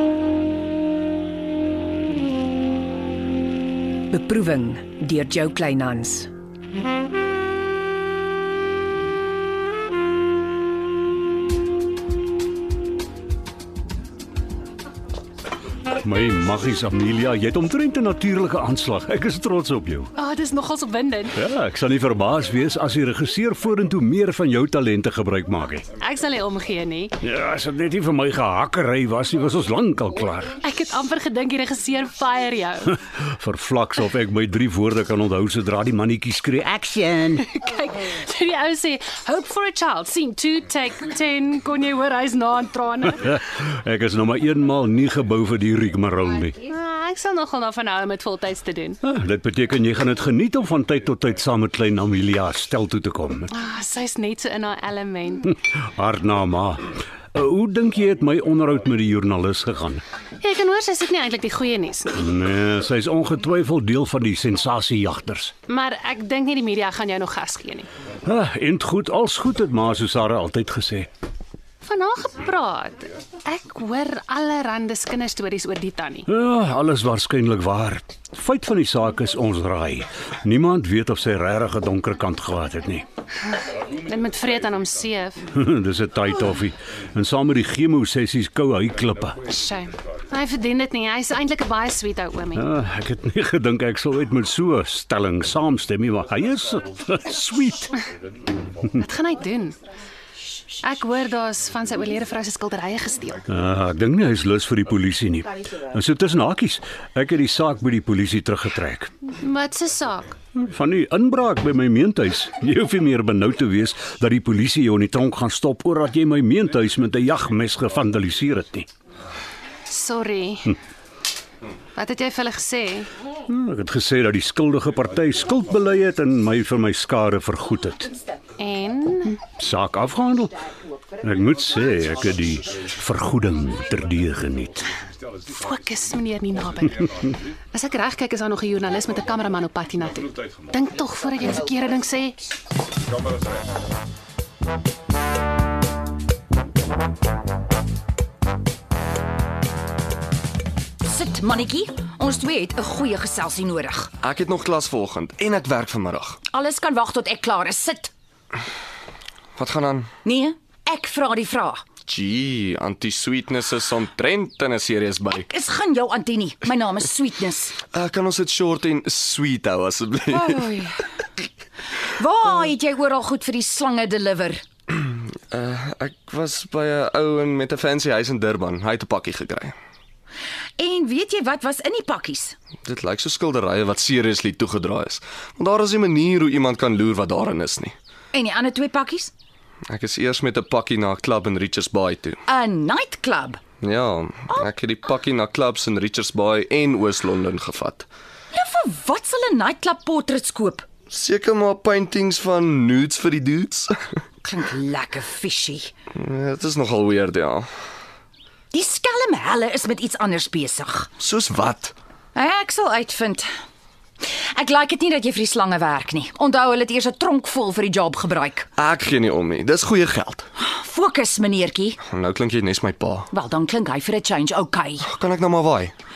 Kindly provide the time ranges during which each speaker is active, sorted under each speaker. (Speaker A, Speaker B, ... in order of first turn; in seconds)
Speaker A: 4.1-6.3
Speaker B: 16.0-20.1, 21.4-25.9, 27.2-30.5, 33.2-37.4, 43.2-46.6, 49.0-53.5, 55.9-60.0, 62.1-65.5, 68.2-71.1, 76.3-83.0, 85.5-89.5, 92.5-98.0, 103.5-109.1, 110.5-118.9, 123.5-128.1, 129.5-130.6, 131.2-134.8
Speaker C: 20.1-21.4, 25.9-27.1, 30.6-32.9, 37.4-43.2, 46.6-49.0, 53.5-55.5, 60.4-62.2, 65.7-67.9, 71.8-76.3, 84.0-85.5, 89.4-92.7, 99.0-99.8, 100.8-103.4, 109.3-110.4, 119.9-120.7, 121.9-123.1, 128.6-129.4, 135.4-137.0, 137.7-142.4
Speaker D: 151.0-154.1, 156.5-158.1, 160.2-161.8, 165.4-167.8, 170.3-171.0, 172.1-174.6, 180.8-182.6, 188.3-189.3, 192.5-193.6, 198.5-200.8, 204.4-205.9, 208.7-211.1, 212.3-213.5, 214.2-218.7, 220.6-222.0, 223.3-225.1
Speaker E: 154.2-156.4, 159.6-160.1, 162.1-165.4, 167.9-170.6, 174.9-179.7, 182.8-187.9, 189.9-192.4, 193.8-198.1, 201.1-203.9, 206.1-207.7, 211.2-211.9, 218.8-220.4, 222.1-223.3, 225.0-225.9